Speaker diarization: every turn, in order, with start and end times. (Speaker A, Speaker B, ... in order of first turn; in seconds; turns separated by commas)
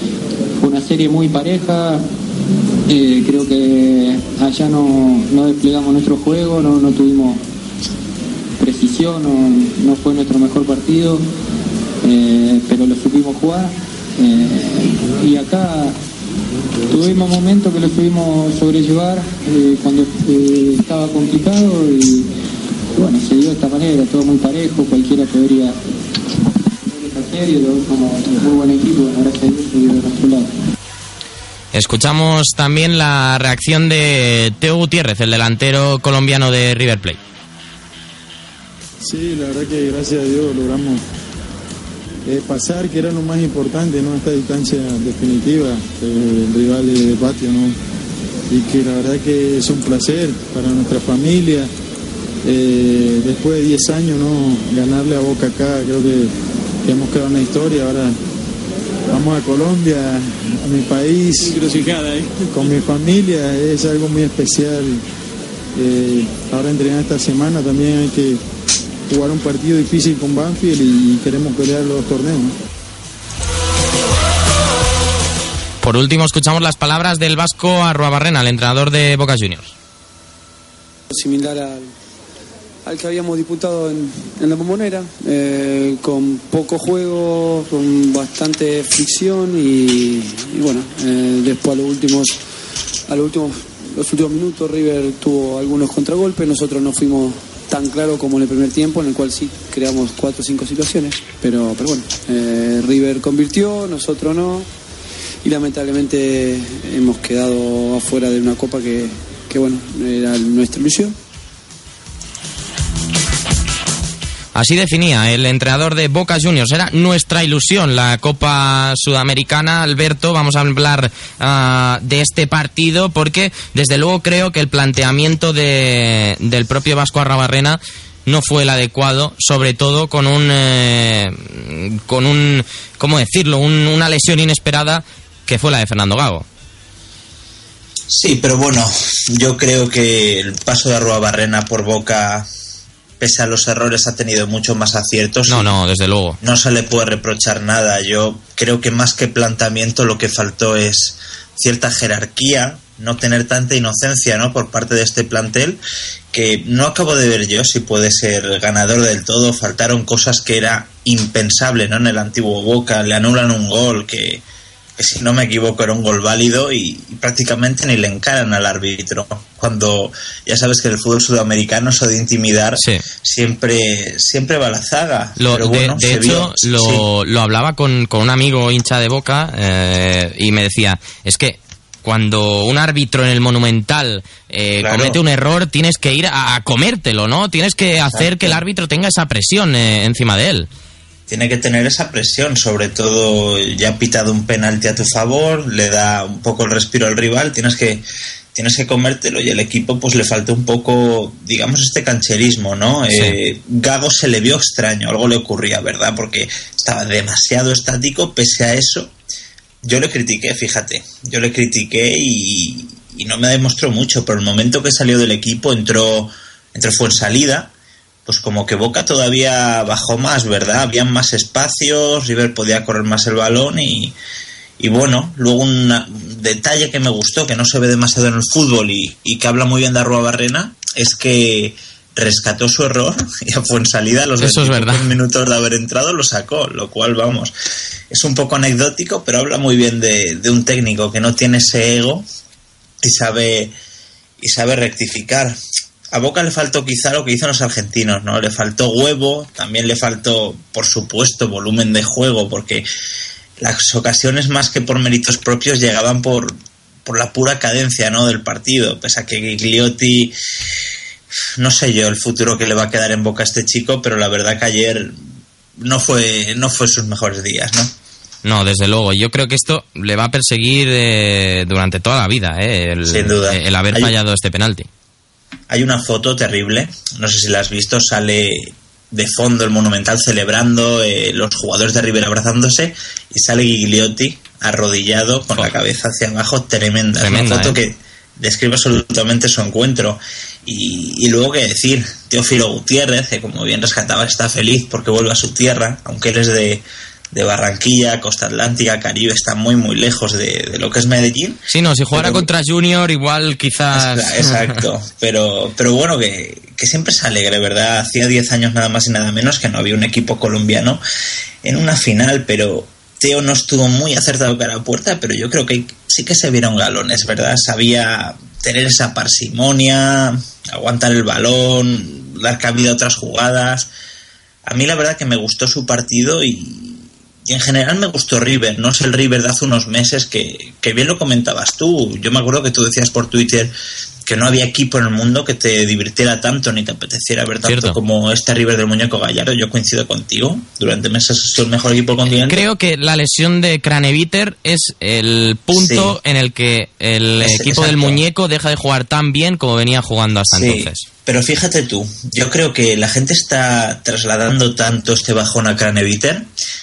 Speaker A: 0.6-2.0, Speaker A: 2.9-7.4, Speaker A: 8.6-11.3, Speaker A: 12.0-16.0, Speaker A: 16.9-22.3, Speaker A: 22.9-25.8, Speaker A: 26.8-30.6, Speaker B: 31.7-37.2, Speaker C: 39.0-41.0, Speaker C: 42.2-47.8, Speaker C: 48.5-51.7, Speaker C: 52.4-56.3, Speaker C: 56.8-58.1, Speaker C: 59.1-65.0, Speaker C: 65.7-68.4, Speaker C: 69.1-72.5, Speaker B: 75.8-79.7, Speaker D: 81.1-81.9, Speaker D: 82.8-92.3, Speaker D: 93.1-104.7, Speaker D: 105.4-111.1, Speaker B: 114.5-136.4, Speaker E: 138.1-142.5, Speaker E: 143.2-145.7, Speaker B: 145.5-146.4, Speaker E: 146.4-155.8, Speaker E: 156.3-164.4, Speaker E: 165.0-177.1, Speaker B: 172.8-173.0, Speaker B: 175.4-190.7, Speaker E: 184.8-185.2, Speaker E: 187.9-188.6, Speaker E: 191.3-198.0, Speaker E: 198.5-209.1, Speaker B: 203.1-203.4, Speaker E: 209.8-217.7, Speaker E: 218.2-224.1, Speaker E: 224.8-237.5, Speaker B: 234.4-235.1, Speaker E: 238.1-242.2, Speaker E: 243.0-243.7, Speaker E: 244.4-245.6, Speaker E: 246.1-252.8, Speaker E: 253.6-260.3, Speaker E: 261.6-265.2, Speaker E: 265.8-267.9, Speaker B: 268.4-274.9, Speaker E: 273.1-274.1, Speaker E: 275.7-302.5, Speaker B: 287.2-287.8, Speaker B: 301.7-304.8, Speaker E: 303.9-311.0, Speaker E: 311.6-323.9, Speaker E: 324.6-333.7, Speaker E: 334.2-342.6, Speaker B: 337.6-338.0, Speaker B: 342.4-351.0, Speaker E: 345.7-346.2, Speaker E: 347.4-348.2, Speaker E: 350.5-356.5